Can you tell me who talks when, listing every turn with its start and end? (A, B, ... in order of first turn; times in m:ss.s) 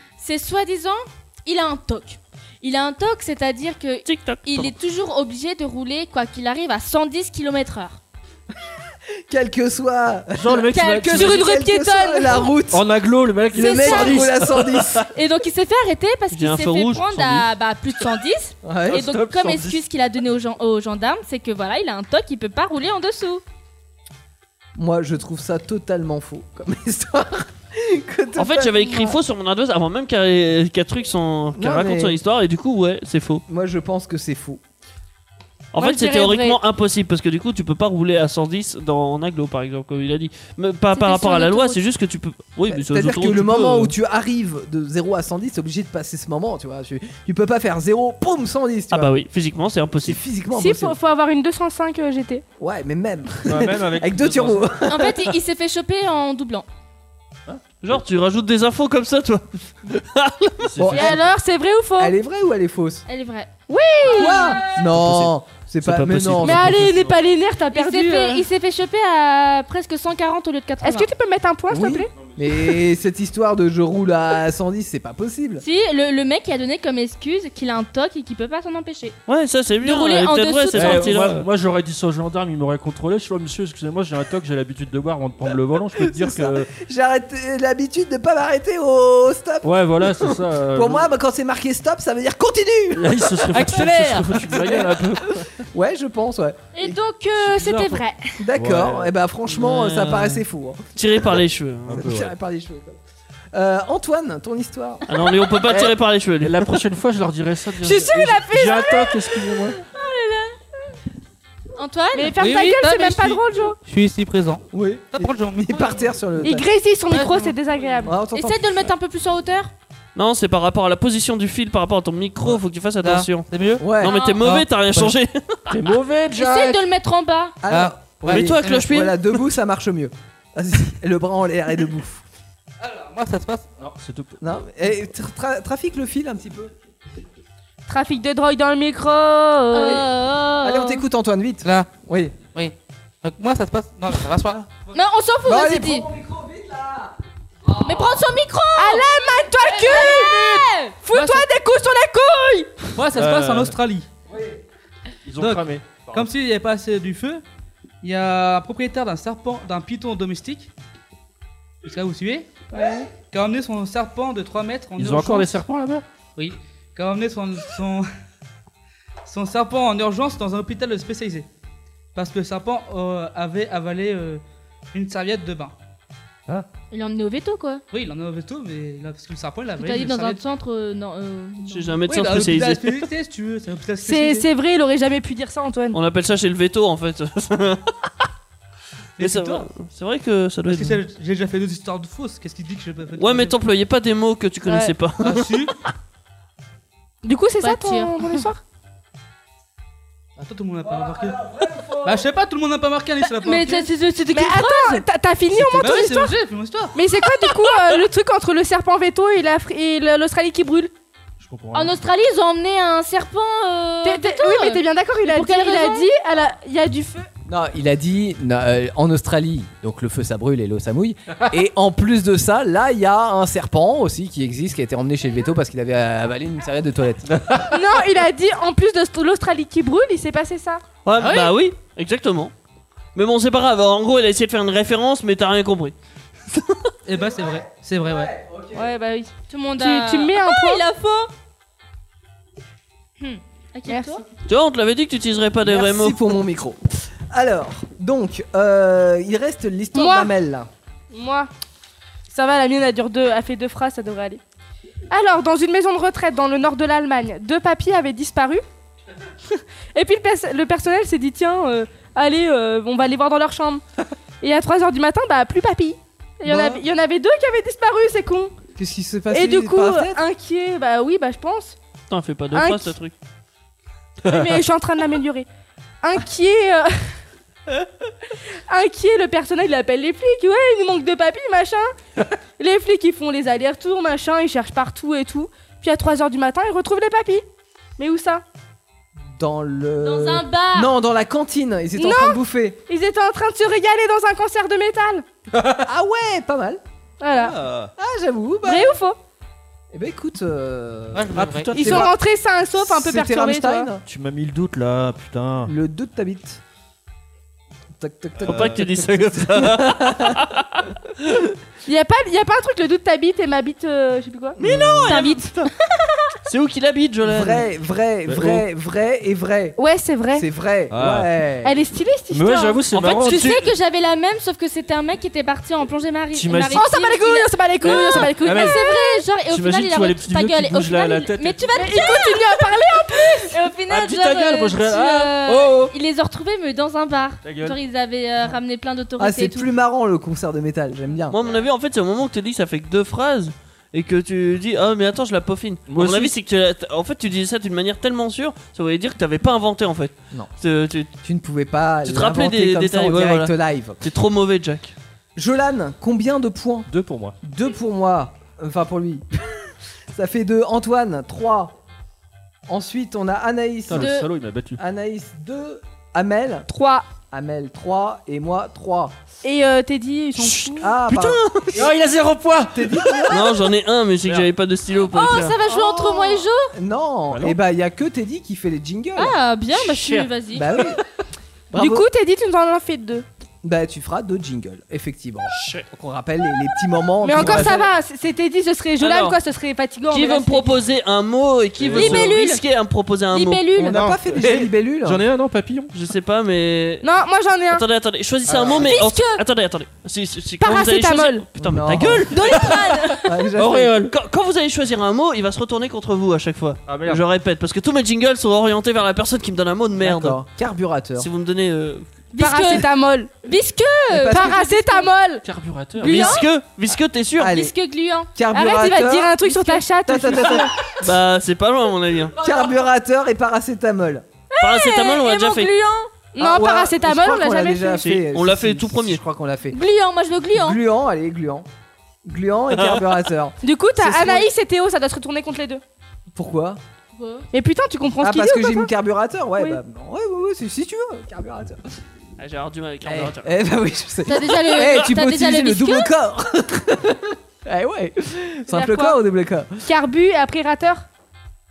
0:00.2-0:08.0 A
0:04.0-0:04.6 B
0:09.3-0:12.8 C
0:10.3-0:11.4 D
0:10.7-0:11.5 A
0:11.1-0:12.5 E
0:12.7-0:15.1 D
0:13.5-0:15.1 C
0:13.5-0:14.3 A
0:15.1-0:23.4 A
0:16.3-0:17.5 B
0:18.6-0:19.0 C
0:18.9-0:19.8 D
0:24.8-0:29.2 C
0:28.4-0:33.4 B
0:31.5-0:32.2 C
0:33.5-0:34.6 C
0:35.7-0:43.9 B
0:35.8-0:36.6 E
0:41.0-0:41.7 A
0:41.0-0:41.7 E
0:42.7-0:49.2 C
0:48.9-0:50.2 B
0:50.0-0:51.0 C
0:50.5-0:52.4 E
0:52.6-0:55.3 C
0:53.4-0:54.7 D
0:54.9-0:56.7 A
0:57.8-1:00.7 B
1:00.6-1:01.2 D
1:00.8-1:01.2 C
1:00.9-1:02.1 E
1:02.0-1:03.0 C
1:03.1-1:04.8 A
1:03.7-1:04.6 E
1:04.0-1:06.8 C
1:04.8-1:06.7 B
1:06.0-1:07.1 D
1:06.4-1:08.4 E
1:07.7-1:11.1 A
1:10.8-1:12.1 E
1:11.7-1:15.6 C
1:12.1-1:12.7 D
1:15.6-1:19.2 A
1:19.3-1:21.4 B
1:19.8-1:21.2 A
1:20.7-1:26.7 D
1:25.5-1:33.9 C
1:29.6-1:31.1 D
1:32.9-1:35.5 D
1:33.5-1:34.8 F
1:34.5-1:37.0 C
1:36.7-1:38.4 A
1:37.4-1:38.0 D
1:38.4-1:40.8 C
1:38.5-1:39.1 D
1:39.5-1:40.4 B
1:41.0-1:42.1 B
1:41.9-1:42.3 D
1:41.9-1:43.0 C
1:43.5-1:45.0 C
1:45.1-1:46.8 B
1:45.7-1:49.8 D
1:47.8-1:49.1 E
1:49.8-1:50.5 A
1:51.8-1:52.3 A
1:52.1-1:53.8 E
1:52.4-1:56.0 F
1:54.7-1:56.6 C
1:56.4-1:58.2 E
1:57.1-1:57.5 F
1:58.0-1:58.8 C
1:58.3-1:59.7 A
2:00.1-2:03.5 B
2:03.0-2:03.9 F
2:03.8-2:04.2 C
2:04.0-2:05.8 B
2:04.0-2:04.4 A
2:04.4-2:05.1 F
2:05.7-2:06.8 D
2:06.3-2:07.6 A
2:07.6-2:12.2 C
2:07.6-2:08.8 F
2:08.2-2:09.4 B
2:12.8-2:13.7 F
2:13.8-2:14.4 D
2:14.4-2:16.7 C
2:17.9-2:20.0 E
2:19.7-2:21.0 A
2:20.6-2:22.3 C
2:21.6-2:21.9 F
2:22.5-2:24.7 F
2:24.9-2:26.1 A
2:25.4-2:27.2 C
2:27.8-2:29.0 A
2:27.8-2:28.1 C
2:28.7-2:32.9 E
2:29.6-2:31.0 A
2:31.1-2:31.4 F
2:32.9-2:34.1 F
2:33.1-2:33.8 D
2:34.3-2:34.6 C
2:35.2-2:36.3 D
2:35.4-2:37.4 F
2:38.0-2:40.7 F
2:41.8-2:45.5 F
2:42.7-2:43.0 E
2:45.0-2:46.0 D
2:46.4-2:48.1 F
2:49.2-2:51.5 F
2:52.1-2:55.7 F
2:56.9-2:57.8 A
2:57.9-3:00.4 F
2:59.8-3:02.0 A
3:01.7-3:03.0 B
3:02.0-3:04.5 F
3:04.0-3:06.0 E
3:05.9-3:07.9 B
3:09.2-3:09.7 F
3:09.2-3:11.0 B
3:10.6-3:13.6 F
3:13.2-3:15.6 B
3:14.6-3:14.9 E
3:15.2-3:15.7 F
3:17.2-3:18.6 E
3:17.6-3:18.4 A
3:20.4-3:21.4 F
3:20.8-3:22.2 C
3:22.0-3:23.9 F
3:23.4-3:25.0 A
3:24.3-3:26.3 E
3:25.7-3:27.0 F
3:26.9-3:30.9 E
3:31.4-3:32.0 D
3:31.7-3:36.1 A
3:34.0-3:37.3 E
3:37.5-3:47.3 C
3:47.7-3:50.8 E
3:51.0-3:52.5 B
3:53.1-3:55.9 B
3:56.5-3:56.8 B
3:57.0-3:58.3 F
3:57.1-3:58.9 C
3:58.7-4:00.8 E
3:59.5-4:01.3 A
4:03.2-4:04.2 A
4:03.9-4:04.2 E
4:04.4-4:06.4 B
4:05.6-4:10.7 C
4:09.9-4:10.3 E
4:11.1-4:11.5 E
4:12.3-4:14.4 E
4:15.1-4:18.6 E
4:19.4-4:23.8 E
4:24.4-4:28.6 E
4:26.4-4:26.8 C
4:28.8-4:30.2 C
4:29.3-4:31.8 E
4:32.1-4:33.1 B
4:32.5-4:32.9 E
4:34.3-4:35.5 E
4:36.0-4:37.1 E
4:38.7-4:41.9 E
4:42.6-4:47.4 E
4:48.0-4:48.4 E
4:49.3-4:52.8 C
4:50.0-4:50.9 A
4:52.0-4:55.2 E
4:55.8-4:56.8 C
4:57.2-4:57.6 E
4:57.3-4:57.9 D
4:58.0-4:58.9 C
4:58.6-4:59.2 E
4:59.9-5:02.1 C
5:01.1-5:01.8 F
5:01.3-5:02.1 D
5:01.7-5:03.9 E
5:02.8-5:04.0 C
5:04.0-5:05.7 D
5:05.6-5:06.6 C
5:08.0-5:10.4 C
5:08.4-5:09.0 D
5:08.4-5:10.8 B
5:11.8-5:15.5 E
5:14.6-5:15.5 B
5:14.6-5:15.1 D
5:16.4-5:17.6 B
5:17.2-5:19.8 C
5:18.3-5:18.6 D
5:19.8-5:20.4 E
5:20.3-5:21.7 C
5:20.9-5:21.3 D
5:21.6-5:22.8 E
5:22.3-5:23.6 D
5:22.9-5:32.7 A
5:23.0-5:23.6 B
5:26.3-5:26.8 D
5:26.7-5:29.2 E
5:27.8-5:28.8 D
5:29.4-5:32.1 D
5:31.7-5:33.5 E
5:33.4-5:39.7 A
5:33.9-5:35.9 D
5:37.4-5:37.8 D
5:39.2-5:41.4 C
5:41.3-5:51.1 B
5:45.9-5:46.3 D
5:51.2-5:54.0 C
5:52.0-5:54.9 B
5:55.4-5:56.9 C
5:56.9-5:57.4 D
5:57.4-5:59.2 C
6:00.1-6:01.7 C
6:02.7-6:04.2 C
6:03.9-6:04.8 D
6:04.0-6:04.3 A
6:04.8-6:06.7 C
6:06.7-6:07.1 E
6:07.2-6:09.1 C
6:09.4-6:10.9 E
6:10.4-6:11.3 B
6:10.8-6:11.9 C
6:11.1-6:13.3 D
6:12.7-6:13.7 C
6:13.3-6:15.6 B
6:15.1-6:16.7 A
6:15.7-6:16.4 E
6:16.7-6:19.4 C
6:17.3-6:17.6 D
6:19.2-6:20.7 A
6:19.7-6:21.0 D
6:20.5-6:21.0 C
6:21.7-6:22.1 C
6:21.7-6:23.2 E
6:23.6-6:27.9 C
6:25.5-6:25.8 B
6:27.2-6:30.7 E
6:27.4-6:27.8 D
6:29.0-6:29.4 B
6:30.1-6:33.6 B
6:31.8-6:32.3 D
6:31.9-6:32.6 A
6:33.3-6:34.0 A
6:33.8-6:35.2 C
6:33.8-6:35.9 D
6:35.9-6:37.1 B
6:37.0-6:37.8 E
6:37.7-6:42.7 B
6:38.5-6:38.8 C
6:38.8-6:39.4 A
6:40.6-6:41.4 E
6:41.6-6:42.6 C
6:42.3-6:43.3 A
6:42.5-6:42.9 D
6:43.2-6:44.0 C
6:43.5-6:44.1 D
6:44.1-6:50.4 B
6:46.9-6:47.2 D
6:49.9-6:51.3 C
6:51.2-6:52.0 B
6:52.3-6:52.9 A
6:52.4-6:53.3 E
6:53.4-6:55.1 A
6:54.1-6:54.7 C
6:54.2-6:55.4 E
6:55.4-6:56.4 D
6:56.0-6:56.4 A
6:56.0-6:57.5 B
6:57.4-6:57.7 C
6:57.5-6:58.3 A
6:58.3-7:00.7 C
6:58.5-7:00.7 E
7:01.0-7:02.4 B
7:02.4-7:04.2 C
7:04.5-7:06.1 A
7:04.6-7:05.7 B
7:06.3-7:08.0 E
7:06.4-7:09.8 C
7:08.0-7:09.2 B
7:09.7-7:10.8 A
7:10.5-7:11.6 C
7:12.2-7:14.5 C
7:12.7-7:13.2 B
7:13.6-7:15.8 E
7:16.3-7:16.8 C
7:17.1-7:17.4 A
7:17.5-7:18.9 E
7:18.2-7:21.8 C
7:22.4-7:23.5 B
7:23.0-7:29.9 C
7:24.2-7:26.1 A
7:28.7-7:29.2 E
7:29.8-7:31.0 E